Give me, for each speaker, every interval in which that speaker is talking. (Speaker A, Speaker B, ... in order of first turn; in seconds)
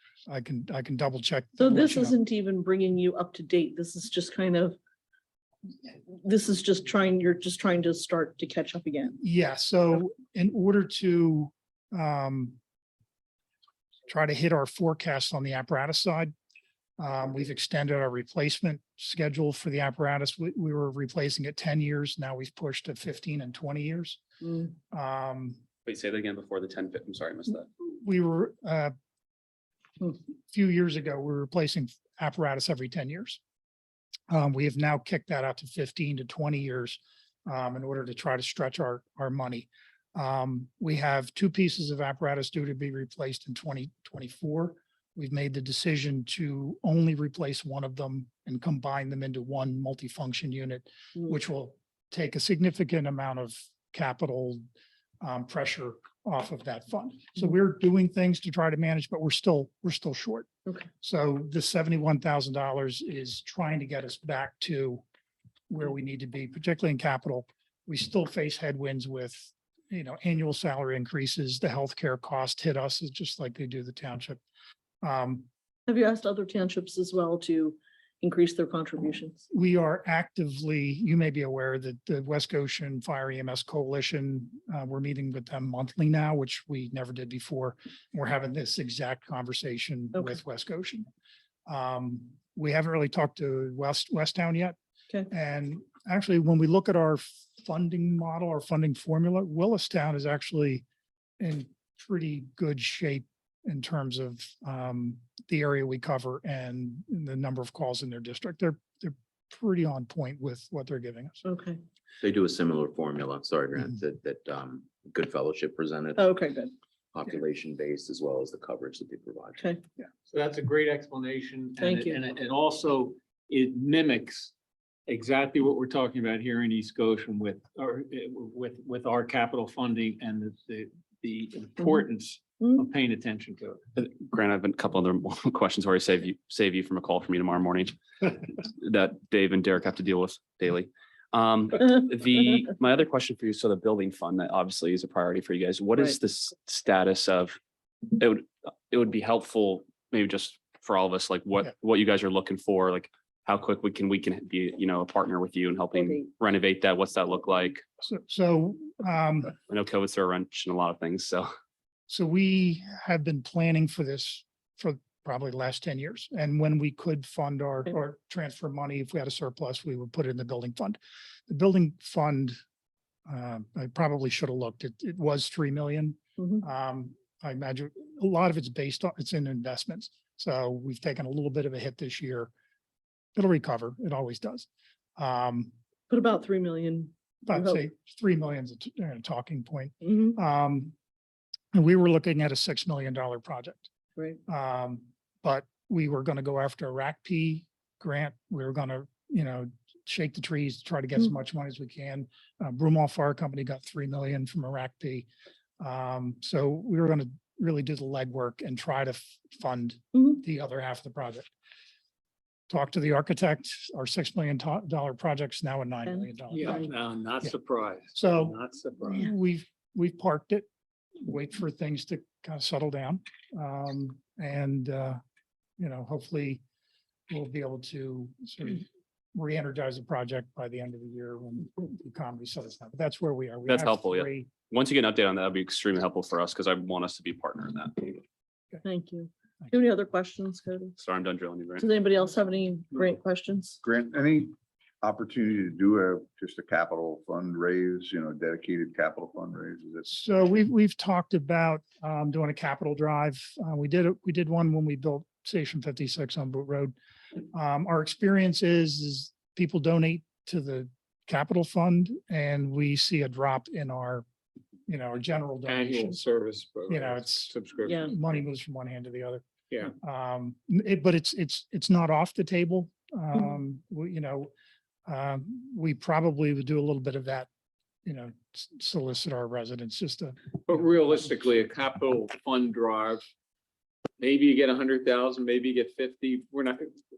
Speaker A: 0.3-2.2, 9.2-12.6, 14.1-16.3, 17.0-24.2, 24.9-25.6, 27.8-28.9, 30.1-33.4, 34.3-54.6, 55.2-60.5, 61.0-65.0, 65.7-74.4, 75.0-75.5, 79.5-91.1, 91.7-94.8, 95.3-100.8, 101.4-111.4, 158.0-159.5, 162.1-172.6, 173.3-182.5, 183.3-185.7, 187.4-190.9, 191.7-193.9, 194.5-205.3, 205.8-211.5, 212.7-216.9, 218.1-220.7, 221.2-225.2, 225.8-226.6, 227.3-234.5, 250.1-256.9, 257.5-264.2, 264.9-266.2, 266.9-274.5, 275.1-277.5, 278.0-280.4
Speaker B: 1.6-4.8, 6.0-9.2, 75.9-79.4, 111.4-111.8, 116.2-116.7, 121.8-122.2, 186.1-187.8, 216.1-216.9, 238.8-240.9, 241.8-243.8
Speaker C: 25.9-27.7, 134.0-147.6, 148.1-157.8, 159.7-161.5, 233.7-238.2, 241.0-241.9
Speaker D: 112.2-116.4, 117.1-119.6
Speaker E: 120.3-124.5, 125.1-133.8, 216.5-219.2, 265.6-268.1, 280.7-283.2, 284.2-286.9
Speaker F: 243.8-250.1